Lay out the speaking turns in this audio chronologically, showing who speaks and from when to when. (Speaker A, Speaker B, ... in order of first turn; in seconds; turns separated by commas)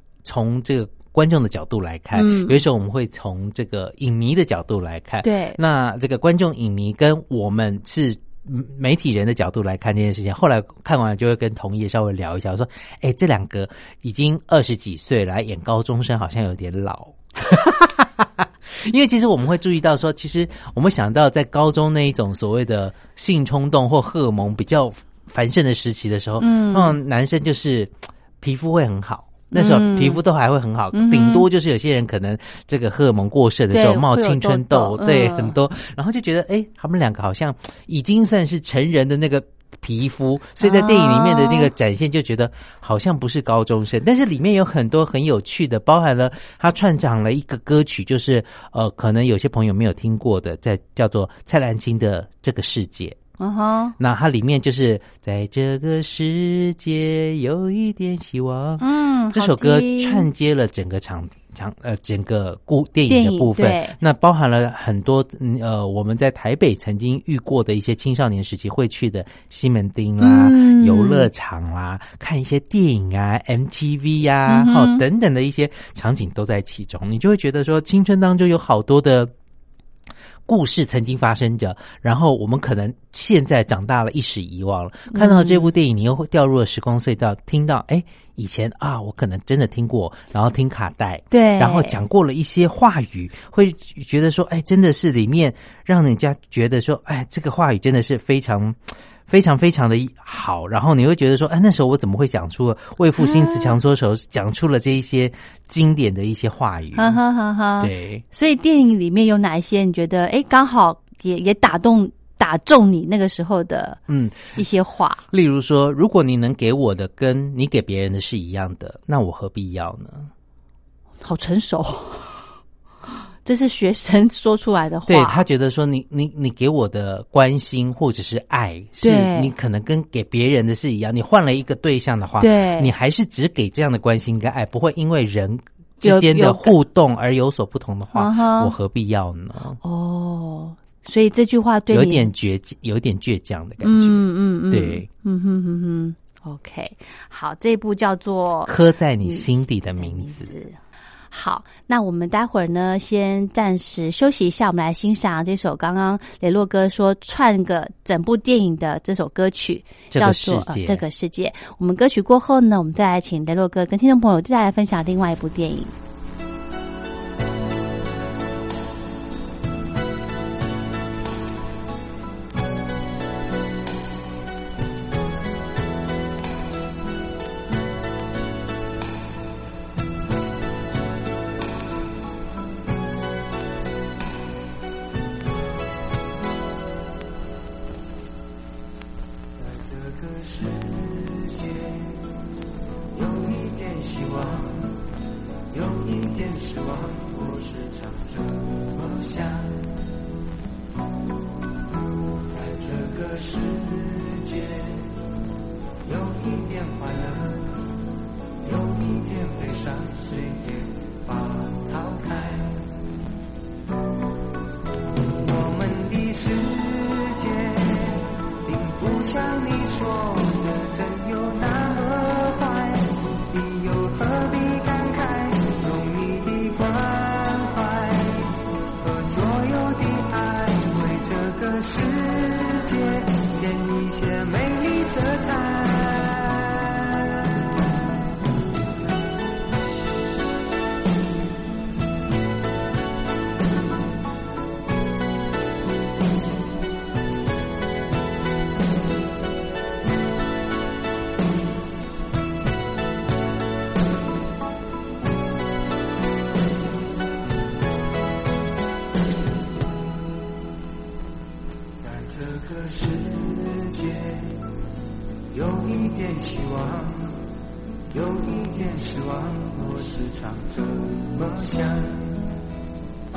Speaker A: 0.2-53.2, Speaker B: 2.1-2.6, Speaker B: 5.2-5.6, Speaker B: 26.4-27.0, Speaker B: 29.5-30.2, Speaker B: 30.9-31.5, Speaker B: 33.7-35.5, Speaker B: 40.6-41.7, Speaker B: 53.4-54.0, Speaker A: 54.0-79.3, Speaker B: 58.8-60.3, Speaker B: 63.1-64.0, Speaker B: 70.2-71.3, Speaker B: 74.5-75.0, Speaker A: 80.5-107.2, Speaker B: 85.1-85.7, Speaker B: 91.3-92.0, Speaker B: 103.2-103.8, Speaker B: 107.0-114.0, Speaker A: 107.8-108.2, Speaker A: 114.1-114.6, Speaker B: 114.6-115.2, Speaker A: 115.3-120.3, Speaker B: 121.2-122.4, Speaker B: 123.5-125.5, Speaker A: 125.1-139.8, Speaker B: 129.0-129.5, Speaker B: 132.4-132.9, Speaker B: 136.0-136.7, Speaker B: 138.1-138.7, Speaker B: 139.8-142.3, Speaker A: 141.9-145.1, Speaker B: 143.8-148.7, Speaker A: 148.7-150.5, Speaker B: 149.2-150.8, Speaker B: 151.3-165.9, Speaker A: 160.1-161.0, Speaker C: 189.6-192.3, Speaker C: 193.1-195.0, Speaker C: 195.7-199.9, Speaker C: 202.5-205.1, Speaker C: 206.1-207.8, Speaker C: 208.6-212.9, Speaker C: 215.4-236.9, Speaker C: 262.0-264.6, Speaker C: 265.5-267.4, Speaker C: 268.1-272.4